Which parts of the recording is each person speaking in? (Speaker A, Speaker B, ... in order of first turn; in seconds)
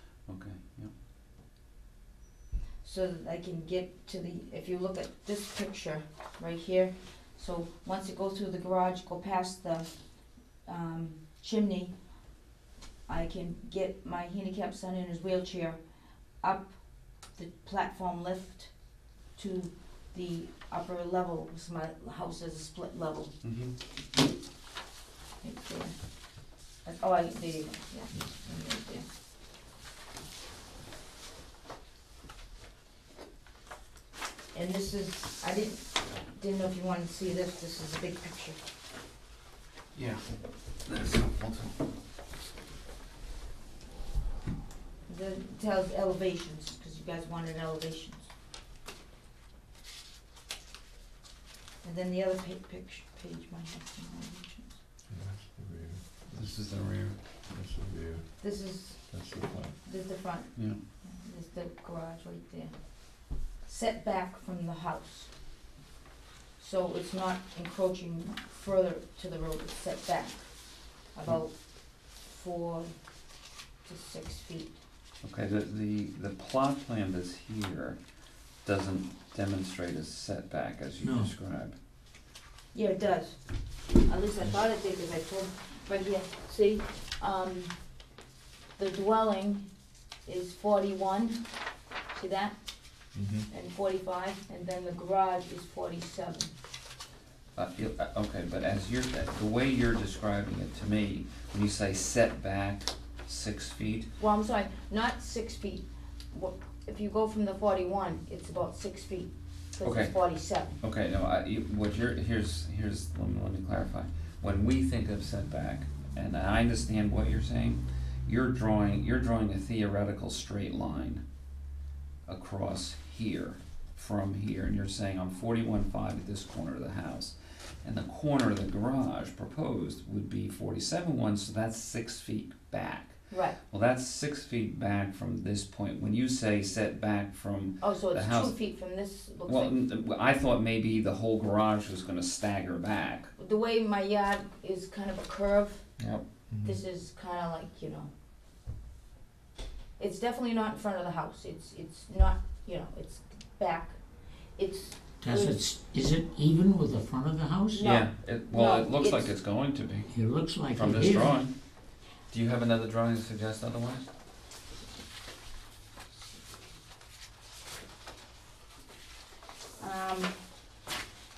Speaker A: 0.2-0.9, 23.4-23.7, 39.9-40.2, 40.8-41.7, 56.3-57.2, 60.5-60.8, 75.2-78.0, 78.6-81.8, 97.6-104.1, 109.8-110.1, 110.8-121.2, 122.3-133.2, 133.7-138.6, 139.5-143.3, 146.0-146.2, 157.8-160.1, 160.7-161.5, 162.3-164.1
Speaker B: 2.8-9.9, 10.7-11.9, 13.1-15.8, 16.4-16.8, 17.3-18.7, 19.4-23.3, 25.4-25.9, 26.8-29.1, 34.5-38.6, 45.1-48.3, 51.8-54.8, 58.4-59.1, 59.8-62.7, 63.6-65.3, 66.6-70.6, 71.1-73.0, 73.8-74.8, 82.7-83.4, 83.9-87.7, 88.8-89.7, 90.2-91.4, 92.1-92.6, 93.5-96.5, 104.2-110.8, 133.3-133.6, 137.8-139.7, 143.4-145.9, 146.6-148.1, 150.0-154.0, 154.6-155.7, 157.7-159.3, 169.8-170.3
Speaker C: 55.1-56.5, 57.5-58.3, 59.1-59.7, 93.2-93.5, 146.5-146.8
Speaker D: 81.0-81.3, 155.2-157.8, 160.1-161.4